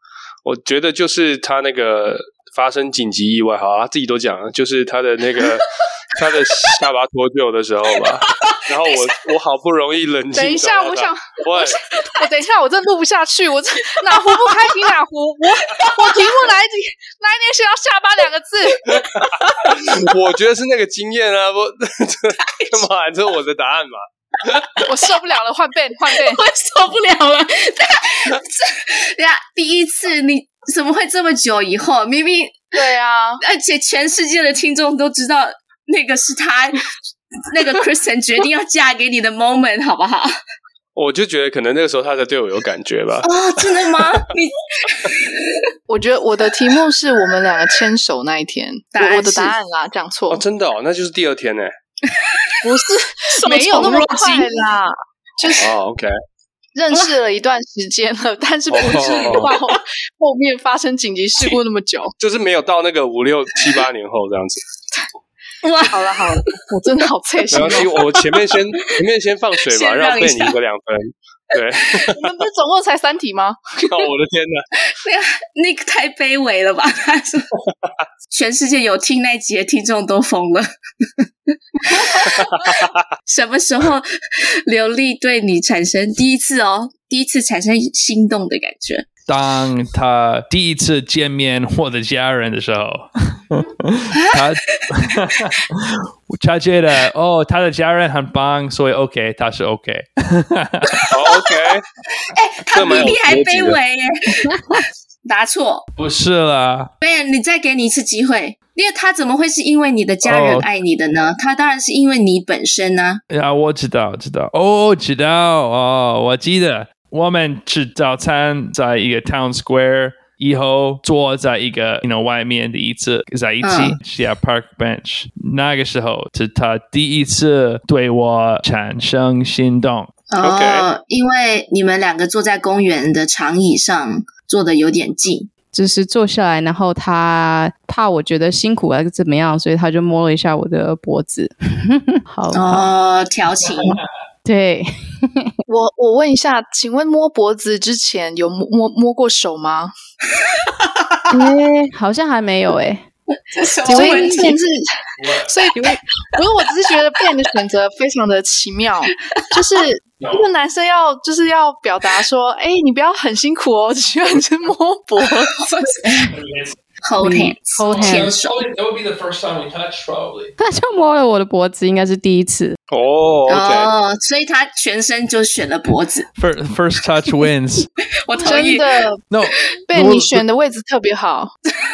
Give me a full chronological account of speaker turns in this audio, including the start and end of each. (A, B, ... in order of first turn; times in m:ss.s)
0:00.4-0:11.8 A
0:10.3-0:19.2 B
0:15.8-0:16.3 C
0:18.9-0:24.6 A
0:24.8-0:26.4 B
0:26.1-0:32.8 C
0:32.7-0:33.4 B
0:33.4-0:36.9 C
0:37.4-0:40.3 C
0:41.0-0:43.3 A
0:43.2-0:45.6 C
0:45.9-0:50.4 B
0:48.9-0:49.6 C
0:50.3-0:51.7 A
0:52.1-0:52.5 C
0:52.6-0:55.7 B
0:53.3-0:54.4 C
0:55.6-0:56.1 A
0:56.8-1:02.1 B
0:58.7-0:59.6 A
1:02.2-1:04.6 A
1:05.6-1:06.6 C
1:05.9-1:08.1 B
1:07.5-1:12.3 A
1:09.7-1:10.6 C
1:12.1-1:13.9 B
1:13.9-1:14.6 A
1:14.9-1:17.5 C
1:18.3-1:20.7 C
1:21.8-1:22.4 C
1:22.2-1:23.0 A
1:23.3-1:29.1 C
1:29.3-1:41.1 D
1:34.3-1:34.9 C
1:41.0-1:41.6 C
1:41.1-1:41.8 A
1:42.2-1:45.9 C
1:42.7-1:43.8 A
1:46.0-1:46.9 D
1:47.0-1:53.2 C
1:50.2-1:50.6 D
1:53.3-2:10.1 D
2:03.6-2:04.0 C
2:10.3-2:15.5 C
2:10.4-2:10.9 A
2:15.7-2:22.9 E
2:22.5-2:24.0 C
2:24.4-2:25.5 E
2:25.7-2:29.9 B
2:31.3-2:33.0 E
2:33.5-2:34.6 C
2:33.8-2:45.7 B
2:33.8-2:34.5 E
2:35.2-2:35.5 D
2:45.6-2:46.3 C
2:46.3-2:46.8 D
2:47.0-2:48.7 C
2:47.2-2:48.3 E
2:47.9-2:50.5 D
2:50.6-2:52.8 E
2:52.9-2:53.9 A
2:53.5-2:56.3 C
2:56.4-2:57.9 D
2:58.2-2:59.0 C
2:58.4-2:59.2 B
2:59.3-3:00.5 D
2:59.9-3:01.5 B